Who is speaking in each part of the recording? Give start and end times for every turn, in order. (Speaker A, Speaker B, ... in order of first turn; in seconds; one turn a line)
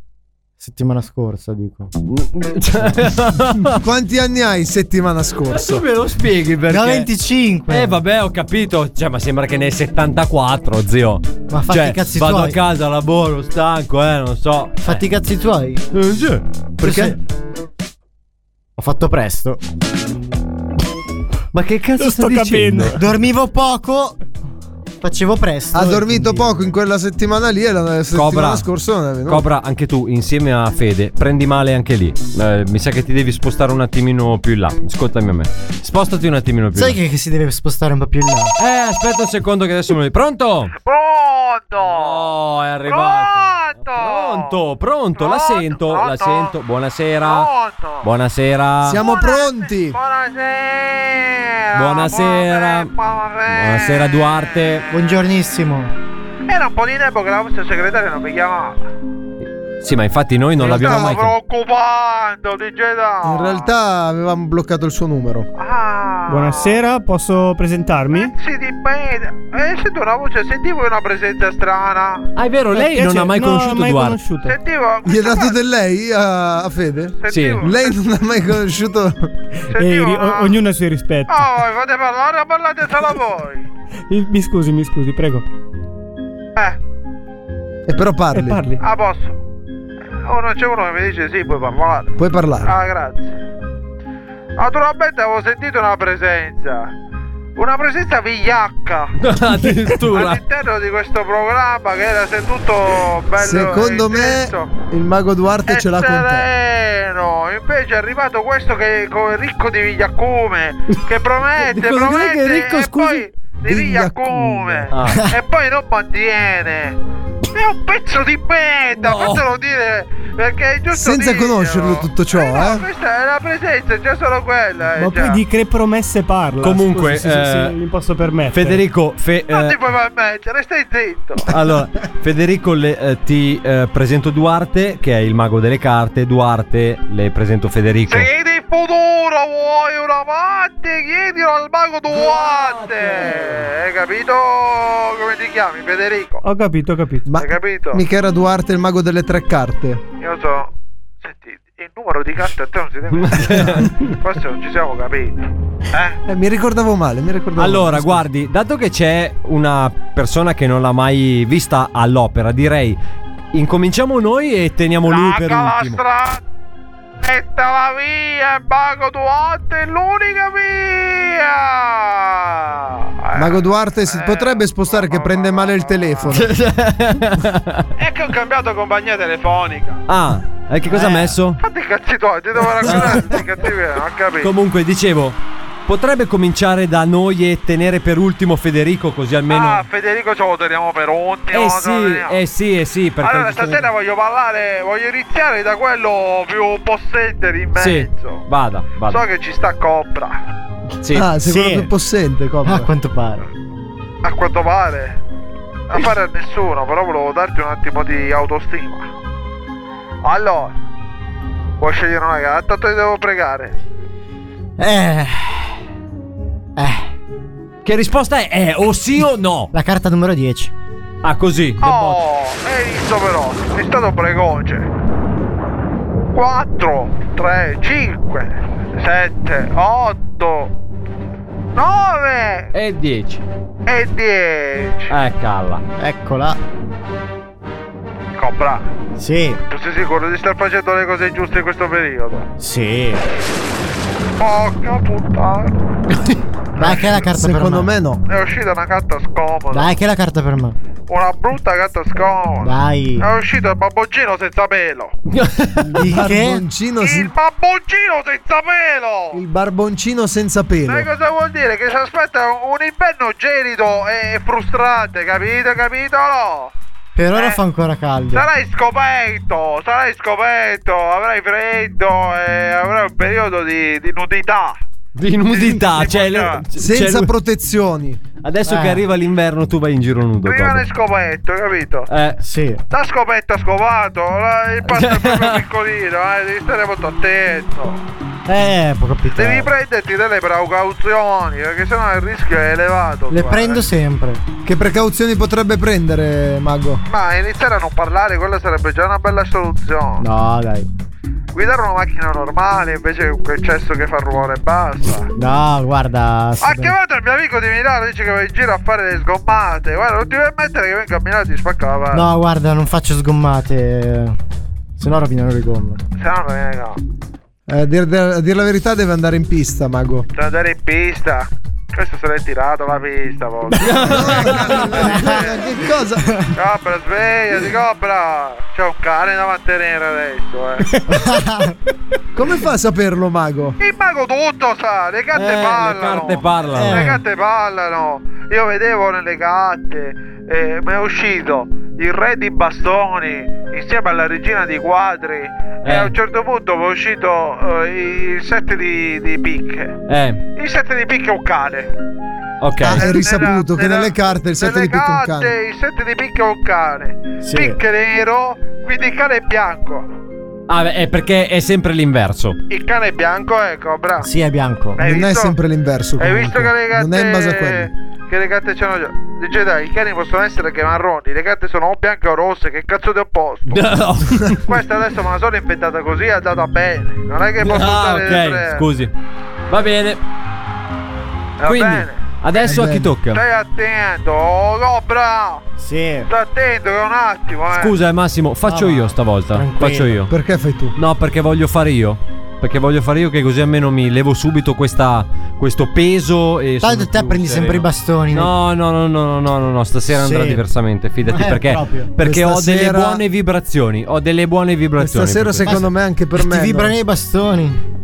Speaker A: 0.6-1.9
Speaker B: 2.0-3.8
Speaker C: 3.8-5.8
Speaker B: 5.5-7.1
Speaker A: 6.7-8.0
Speaker B: 7.7-15.0
Speaker A: 11.5-12.6
Speaker A: 14.8-15.8
Speaker B: 15.9-17.2
Speaker A: 16.8-17.2
Speaker A: 18.8-19.6
Speaker B: 21.5-23.0
Speaker D: 22.0-23.0
Speaker A: 22.9-24.2
Speaker A: 25.0-26.6
Speaker C: 25.7-29.4
Speaker B: 28.1-28.6
Speaker B: 29.3-37.0
Speaker A: 36.7-38.5
Speaker B: 38.6-40.7
Speaker E: 40.8-42.3
Speaker B: 41.9-47.5
Speaker E: 42.9-44.5
Speaker E: 45.1-46.5
Speaker E: 47.2-48.1
Speaker B: 48.0-49.0
Speaker C: 48.8-50.0
Speaker E: 49.0-54.8
Speaker B: 51.7-52.9
Speaker B: 53.5-54.9
Speaker A: 54.9-55.9
Speaker E: 56.5-58.9
Speaker B: 59.8-61.4
Speaker C: 60.6-61.2
Speaker E: 60.6-63.7
Speaker C: 63.2-65.5
Speaker E: 65.5-66.8
Speaker D: 66.3-68.3
Speaker E: 68.1-72.3
Speaker B: 72.3-74.2
Speaker D: 72.7-74.5
Speaker E: 74.4-75.6
Speaker C: 75.0-79.3
Speaker E: 77.2-78.0
Speaker B: 77.3-77.6
Speaker E: 79.7-80.6
Speaker D: 79.7-81.4
Speaker E: 81.3-83.7
Speaker D: 84.1-85.4
Speaker C: 87.9-88.7
Speaker D: 88.3-88.8
Speaker E: 88.8-89.4
Speaker E: 90.2-93.3
Speaker C: 92.2-92.7
Speaker E: 94.6-96.9
Speaker E: 97.5-99.1
Speaker B: 99.2-100.4
Speaker E: 100.0-104.9
Speaker C: 103.4-106.5
Speaker E: 105.7-117.0
Speaker B: 111.6-113.3
Speaker C: 113.7-114.9
Speaker B: 114.9-115.2
Speaker E: 117.5-125.4
Speaker B: 119.0-119.5
Speaker C: 120.9-122.8
Speaker D: 125.0-128.8
Speaker B: 126.6-127.7
Speaker B: 128.5-129.8
Speaker E: 129.5-131.5
Speaker B: 131.5-138.3
Speaker E: 138.1-146.4
Speaker B: 142.1-143.7
Speaker D: 146.4-147.3
Speaker C: 147.3-150.0
Speaker E: 147.3-148.0
Speaker E: 150.2-156.2
Speaker B: 153.1-154.0
Speaker C: 156.3-158.2
Speaker B: 157.6-163.0
Speaker B: 163.5-166.0
Speaker E: 165.0-166.4
Speaker E: 167.2-176.3
Speaker C: 173.3-176.5
Speaker B: 176.3-177.9
Speaker E: 178.0-180.0
Speaker B: 180.1-181.6
Speaker A: 180.9-181.4
Speaker E: 181.6-184.5
Speaker B: 182.8-183.3
Speaker B: 184.4-189.8
Speaker E: 189.5-192.4
Speaker B: 191.5-193.9
Speaker E: 193.2-198.4
Speaker B: 197.7-199.2
Speaker E: 199.0-200.4
Speaker B: 201.0-201.3
Speaker C: 201.1-202.9
Speaker A: 201.4-201.9
Speaker A: 202.6-203.4
Speaker E: 204.2-205.2
Speaker E: 205.9-209.1
Speaker E: 210.2-210.7
Speaker E: 211.8-213.7
Speaker A: 214.8-215.8
Speaker A: 216.8-217.1
Speaker B: 217.8-219.7
Speaker A: 219.7-220.7
Speaker B: 221.2-222.2
Speaker E: 221.8-224.9
Speaker E: 226.3-230.7
Speaker E: 231.7-232.7
Speaker B: 232.7-233.4
Speaker E: 233.9-235.1
Speaker B: 235.1-235.8
Speaker A: 236.0-236.6
Speaker E: 238.4-238.9
Speaker A: 239.2-239.6
Speaker E: 239.7-242.5
Speaker A: 242.6-243.2
Speaker E: 244.4-245.8
Speaker B: 246.1-246.4
Speaker A: 246.8-247.9
Speaker C: 246.8-248.2
Speaker E: 248.3-249.9
Speaker A: 249.7-250.8
Speaker E: 251.1-255.1
Speaker A: 252.6-253.3
Speaker B: 255.3-255.8
Speaker C: 255.9-257.3
Speaker A: 255.9-256.6
Speaker E: 257.0-259.4
Speaker C: 259.3-261.1
Speaker E: 260.9-266.7
Speaker A: 267.1-268.4
Speaker E: 267.3-267.6
Speaker E: 268.3-274.8
Speaker B: 275.1-277.3
Speaker E: 275.5-276.6
Speaker C: 276.8-278.2
Speaker B: 278.4-280.9
Speaker A: 278.6-279.0
Speaker E: 280.4-282.1
Speaker B: 282.1-282.4
Speaker A: 282.4-282.8
Speaker E: 282.9-288.0
Speaker B: 284.8-285.7
Speaker A: 288.4-289.7
Speaker E: 289.3-293.8
Speaker A: 293.3-294.4
Speaker C: 294.6-297.0
Speaker E: 297.1-300.2
Speaker A: 300.2-300.9
Speaker E: 301.5-305.3
Speaker A: 305.4-306.9
Speaker E: 306.6-312.3
Speaker A: 312.1-314.4
Speaker A: 315.0-316.0
Speaker E: 316.2-317.0
Speaker C: 317.7-320.2
Speaker E: 320.3-325.6
Speaker B: 323.7-325.2
Speaker C: 324.0-326.4
Speaker A: 324.9-325.4
Speaker E: 326.5-330.9
Speaker A: 331.1-331.8
Speaker C: 332.3-333.8
Speaker E: 333.8-349.9
Speaker B: 335.3-337.1
Speaker A: 336.7-337.2
Speaker B: 345.8-346.1
Speaker B: 350.1-350.4
Speaker E: 350.6-351.9
Speaker B: 352.6-353.1
Speaker C: 352.8-355.5
Speaker E: 352.9-360.1
Speaker A: 357.4-357.8
Speaker B: 360.7-362.6
Speaker E: 362.7-364.3
Speaker A: 364.2-365.0
Speaker E: 365.0-365.6
Speaker C: 365.0-367.9
Speaker E: 366.2-373.9
Speaker B: 373.7-374.6
Speaker E: 374.6-378.9
Speaker B: 377.6-379.1
Speaker B: 379.7-380.2
Speaker E: 381.6-385.6
Speaker B: 381.6-383.4
Speaker C: 382.6-383.1
Speaker A: 385.8-386.3
Speaker E: 386.3-388.0
Speaker B: 387.7-390.3
Speaker A: 388.6-390.3
Speaker C: 390.3-390.9
Speaker B: 390.9-405.8
Speaker A: 396.8-398.5
Speaker A: 400.1-400.6
Speaker A: 401.2-402.1
Speaker C: 402.2-403.2
Speaker C: 405.0-406.9
Speaker A: 405.6-407.8